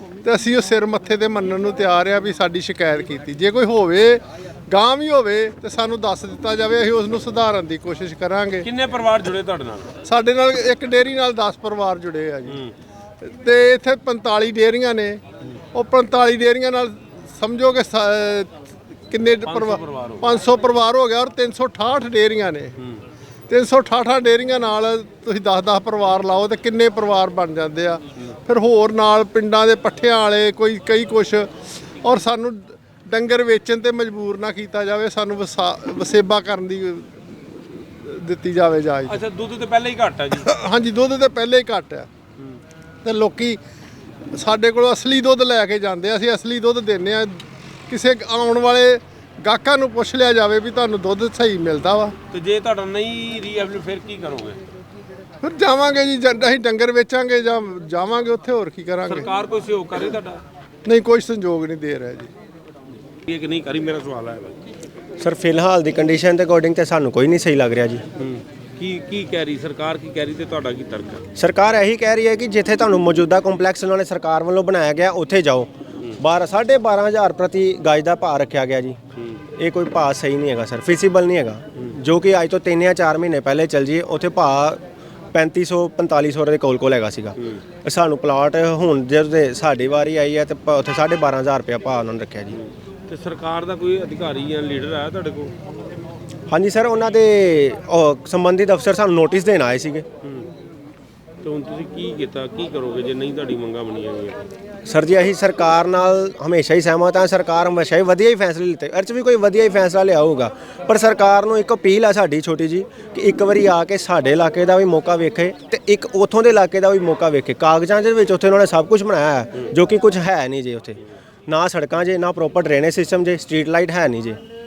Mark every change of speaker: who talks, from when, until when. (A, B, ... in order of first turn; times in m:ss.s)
0:00.2-0:08.7 A
0:08.6-0:10.0 B
0:10.0-0:12.6 A
0:12.5-0:12.7 B
0:13.2-0:15.2 A
0:15.7-0:18.5 A
0:19.1-0:22.8 A
0:19.4-0:20.4 B
0:22.8-0:23.0 B
0:23.5-0:39.2 A
0:39.1-0:40.5 B
0:40.3-0:42.1 A
0:43.0-0:43.6 A
0:44.3-0:52.1 A
0:52.3-0:54.6 B
0:55.4-0:59.3 A
0:59.0-1:00.4 B
1:00.8-1:02.3 A
1:03.2-1:04.6 B
1:05.2-1:08.0 C
1:08.2-1:11.2 B
1:11.4-1:19.0 C
1:19.2-1:19.4 B
1:19.6-1:24.8 C
1:25.3-1:32.6 C
1:32.5-1:35.5 B
1:36.5-1:40.0 C
1:40.2-1:40.5 B
1:41.4-1:44.4 B
1:44.8-2:04.4 C